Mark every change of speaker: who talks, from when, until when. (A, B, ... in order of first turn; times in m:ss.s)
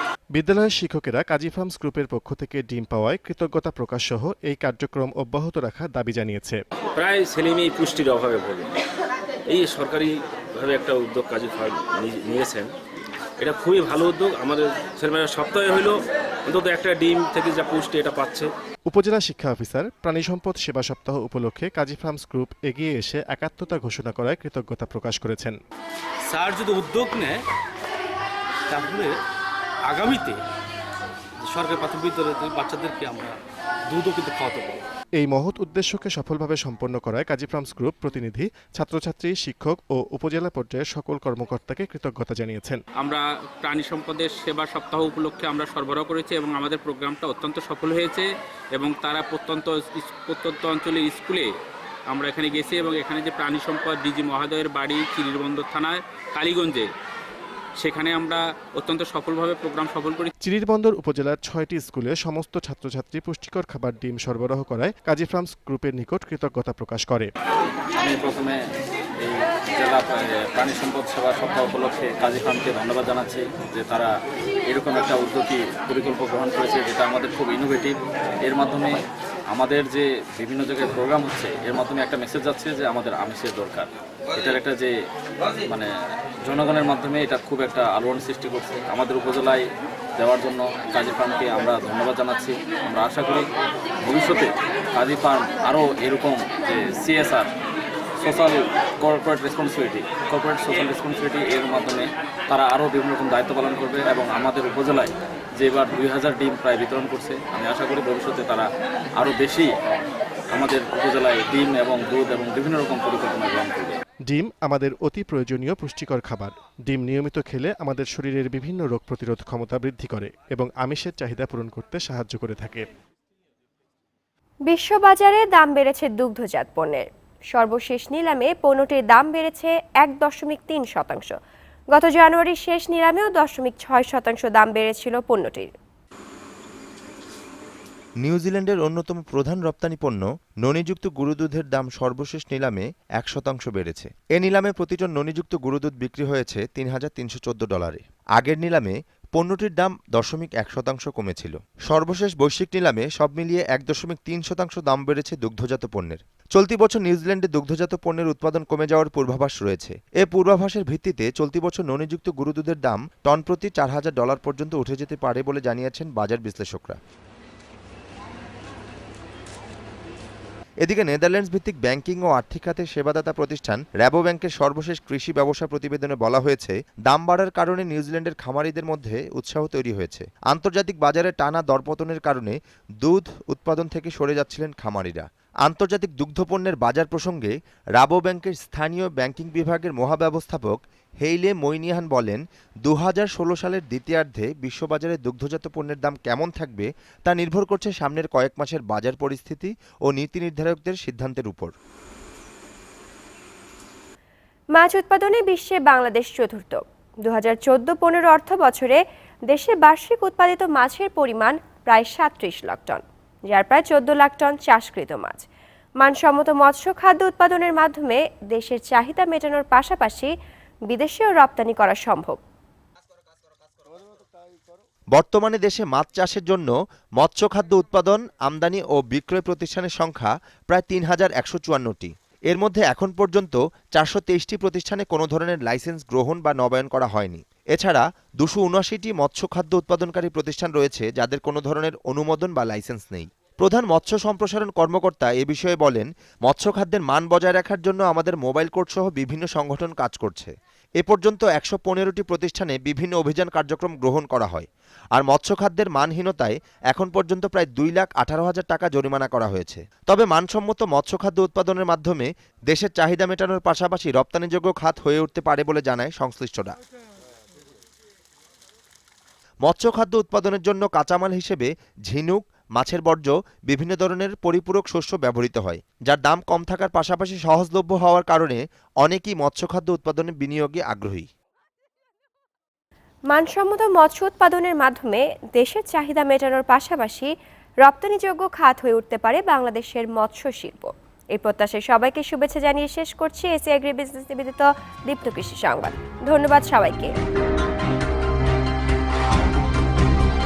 0:00.3-0:06.6 A
0:07.0-0:08.7 B
0:09.5-0:12.7 B
0:13.4-0:18.5 B
0:18.9-0:25.6 A
0:26.3-0:27.4 B
0:28.7-0:29.2 B
0:29.9-0:30.4 B
0:31.4-0:33.4 B
0:33.9-0:34.8 B
0:35.2-0:42.8 A
0:43.0-0:51.5 C
0:52.1-0:56.9 C
0:57.8-1:00.3 C
1:00.4-1:07.3 A
1:08.0-1:08.6 D
1:09.2-1:14.1 D
1:14.7-1:24.9 D
1:26.4-1:29.6 D
1:30.2-1:33.5 D
1:34.0-1:37.5 D
1:38.2-1:49.7 D
1:50.5-1:54.0 D
1:54.3-2:02.8 A
2:04.7-2:11.3 E
2:11.9-2:15.7 E
2:18.2-2:47.0 F
2:50.8-3:21.7 F
3:24.7-3:35.5 E
3:36.0-3:40.3 E
3:40.9-3:42.4 E
3:45.1-4:26.8 F
4:29.6-4:41.3 F
4:43.3-4:47.3 E
4:47.8-4:57.1 E